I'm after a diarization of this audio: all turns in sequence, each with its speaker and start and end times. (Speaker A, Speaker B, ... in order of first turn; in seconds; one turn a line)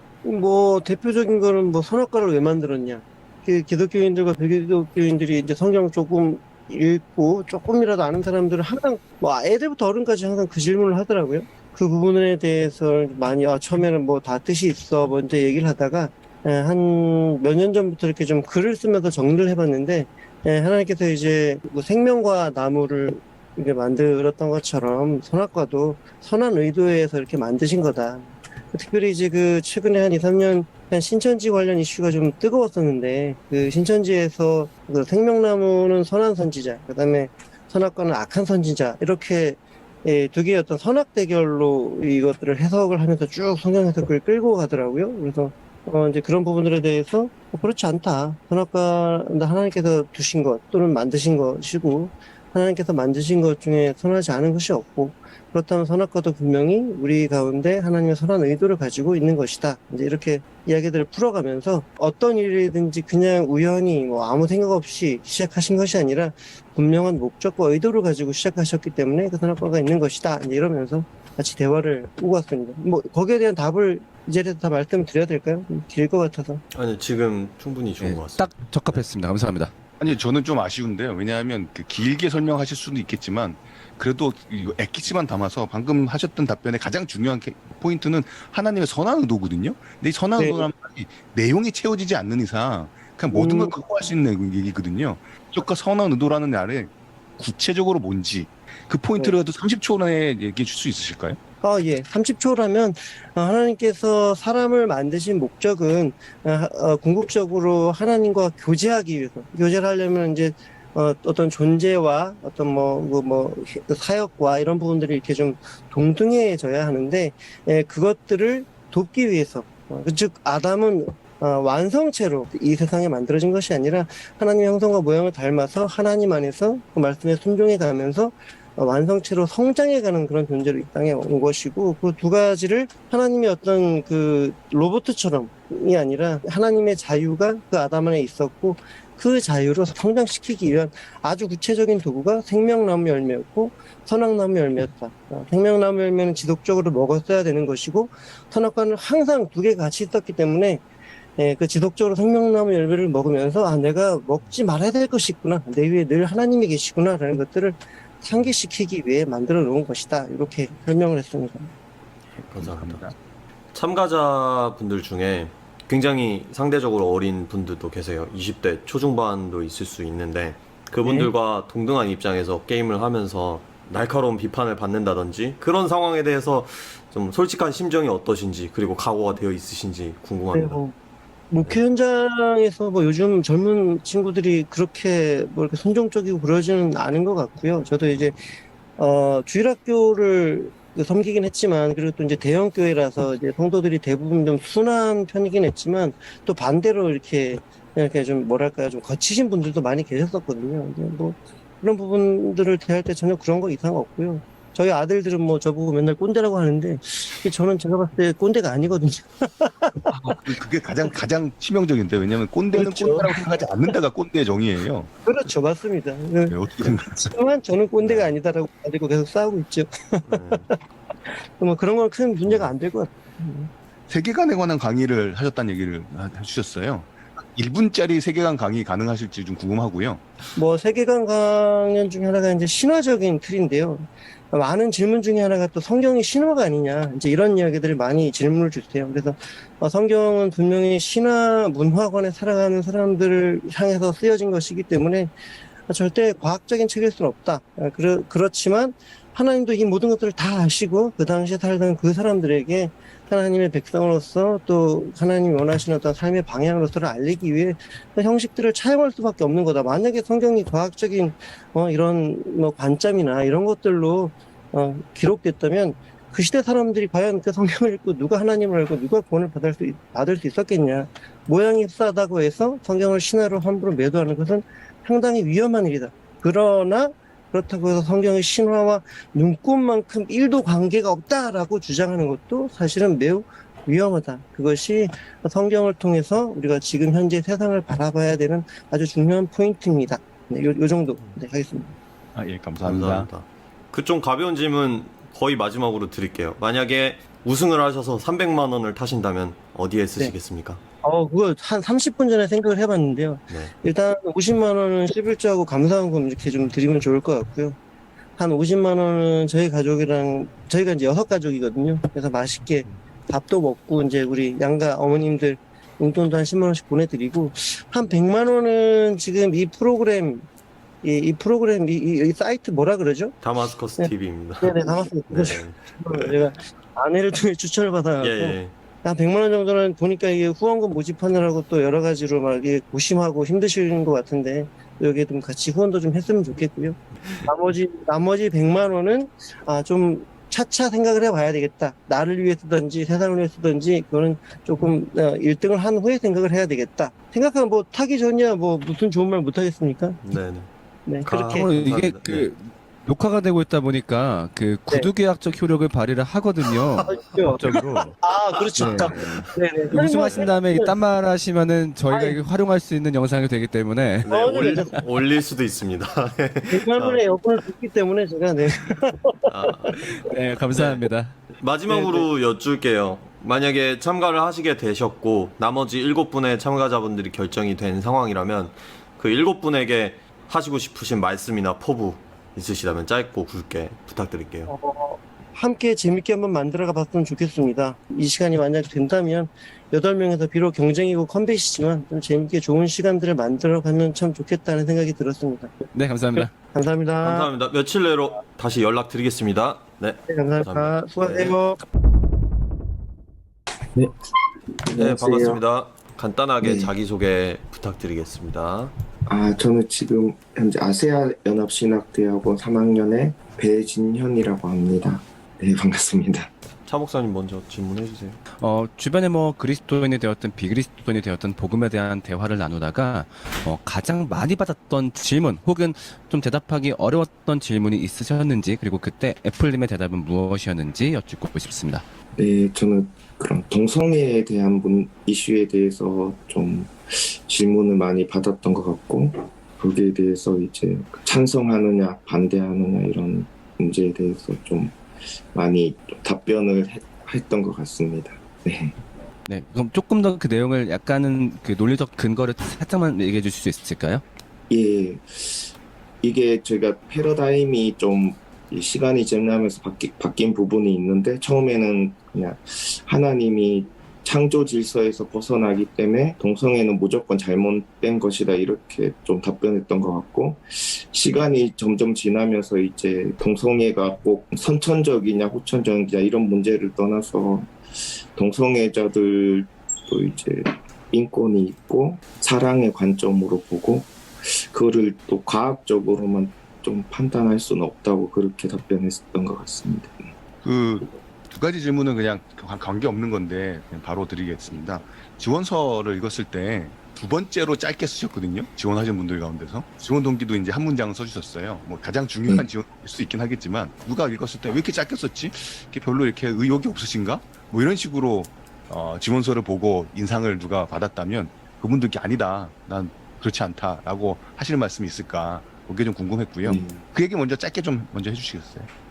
Speaker A: 0.2-76.6
Speaker B: 76.7-79.0
Speaker C: 78.0-79.7
Speaker D: 80.0-101.4
Speaker A: 90.3-90.7
Speaker A: 93.3-93.8
Speaker A: 101.6-150.8
Speaker A: 151.4-161.7
Speaker D: 162.4-163.1
Speaker B: 162.5-163.1
Speaker B: 163.7-180.8
Speaker A: 171.0-171.3
Speaker A: 180.5-180.9
Speaker A: 181.5-210.1
Speaker D: 210.1-215.1
Speaker A: 212.7-213.9
Speaker A: 215.2-220.8
Speaker D: 216.5-217.3
Speaker B: 218.0-218.3
Speaker B: 220.3-220.7
Speaker A: 221.3-223.7
Speaker B: 222.4-222.7
Speaker D: 224.1-230.2
Speaker A: 230.5-245.3
Speaker A: 245.9-291.9
Speaker D: 292.3-293.3
Speaker B: 292.8-300.8
Speaker A: 301.0-307.8
Speaker A: 308.4-320.4
Speaker A: 321.0-350.2
Speaker B: 323.4-326.3
Speaker B: 328.2-328.7
Speaker B: 350.2-350.7
Speaker A: 351.1-351.7
Speaker B: 351.2-352.5
Speaker C: 351.3-358.1
Speaker B: 356.8-357.8
Speaker A: 357.1-360.9
Speaker C: 358.7-365.0
Speaker B: 358.8-359.4
Speaker B: 360.2-360.5
Speaker A: 362.1-362.4
Speaker B: 364.2-367.2
Speaker A: 364.3-364.9
Speaker A: 366.7-369.4
Speaker B: 369.5-369.9
Speaker C: 369.9-372.2
Speaker B: 370.7-371.0
Speaker B: 371.6-384.7
Speaker A: 384.7-395.7
Speaker C: 395.9-396.5
Speaker A: 396.4-397.5
Speaker B: 397.2-401.5
Speaker A: 400.3-401.8
Speaker E: 403.9-405.6
Speaker B: 404.9-408.9
Speaker E: 406.6-406.9
Speaker E: 409.3-416.5
Speaker B: 416.9-418.4
Speaker C: 418.6-432.0
Speaker E: 432.4-445.0
Speaker E: 445.5-448.9
Speaker C: 449.5-454.2
Speaker E: 454.7-477.7
Speaker E: 478.3-490.3
Speaker D: 490.6-518.9
Speaker E: 516.6-517.0